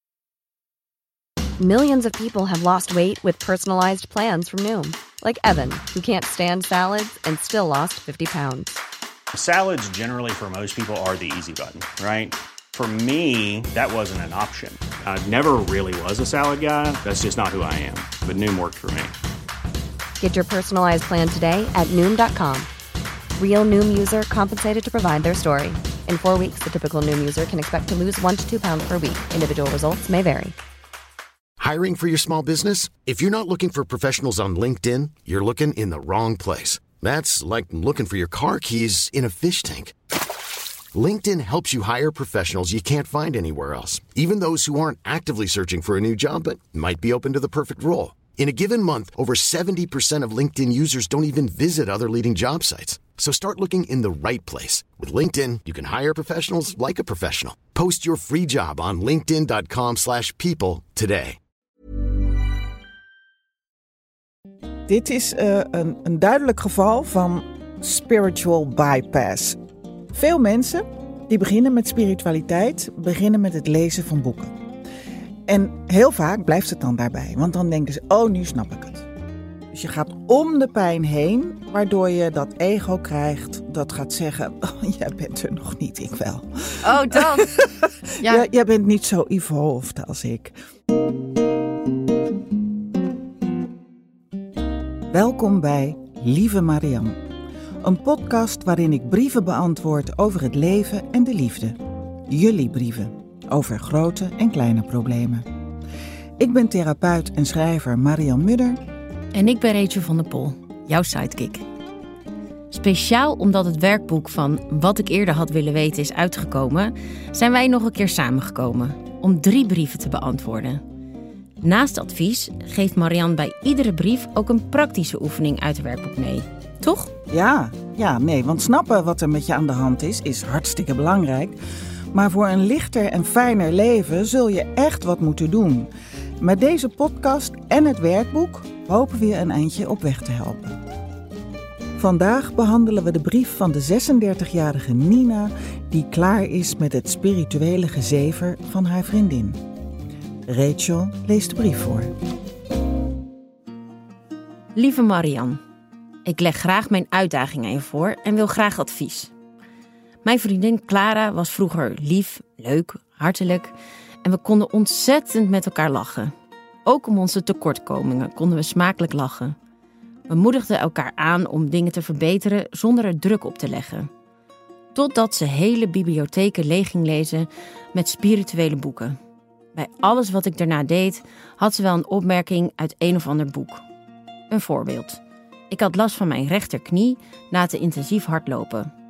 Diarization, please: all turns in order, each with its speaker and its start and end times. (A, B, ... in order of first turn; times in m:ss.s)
0:01.6-0:08.7 A
0:09.3-0:19.2 B
0:20.2-0:22.7 A
0:23.4-0:30.6 A
0:31.6-0:39.9 C
0:40.9-1:01.4 C
1:04.8-1:09.6 D
1:10.1-1:14.5 D
1:15.5-1:19.1 D
1:19.7-1:30.5 D
1:26.8-1:27.6 E
1:35.1-1:37.2 D
1:37.8-1:45.4 D
1:46.4-1:48.8 D
1:49.3-1:51.6 E
1:52.7-2:00.8 E
2:01.6-2:07.1 E
2:07.3-2:11.6 D
2:12.1-2:20.8 D
2:22.0-2:29.6 D
2:30.4-2:32.1 D
2:34.7-2:35.6 E
2:36.2-2:39.3 E
2:40.2-2:43.7 E
2:44.2-2:46.3 E
2:46.8-2:49.5 E
2:50.3-2:54.1 E
2:54.9-2:59.2 E
2:59.8-3:03.8 E
3:04.5-3:08.9 E